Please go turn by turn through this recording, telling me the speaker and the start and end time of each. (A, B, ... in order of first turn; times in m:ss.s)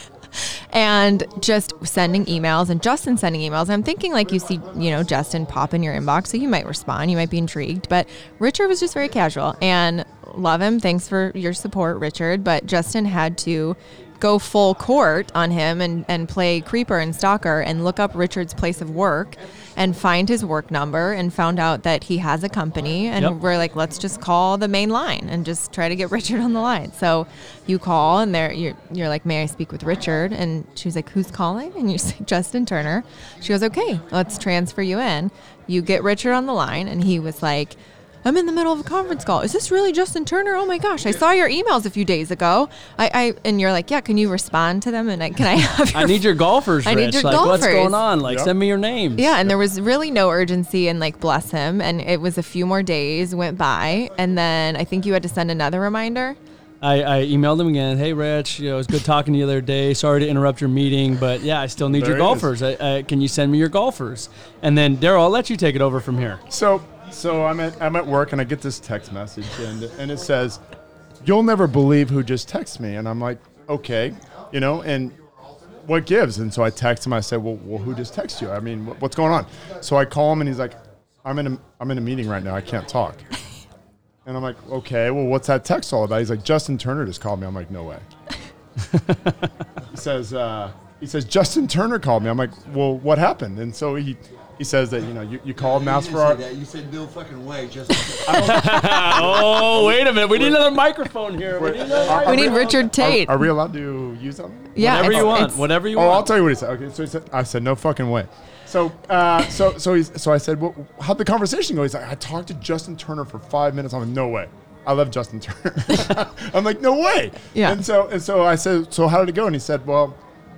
0:00.4-0:46.3 A
0:45.9-0:49.4 B
0:46.8-0:48.0 A
0:48.2-0:48.5 C
0:49.2-0:56.4 A
0:56.8-1:06.4 B
1:01.9-1:02.5 C
1:06.5-1:10.6 C
1:11.2-1:15.2 C
1:15.8-1:23.3 C
1:24.2-1:28.0 C
1:28.9-1:29.5 B
1:29.9-1:36.4 C
1:35.6-1:38.6 D
1:38.2-1:40.6 C
1:38.3-1:42.8 B
1:41.6-2:00.2 C
1:42.2-1:43.5 A
1:44.7-1:45.6 A
1:44.8-1:46.3 B
1:57.5-1:57.8 A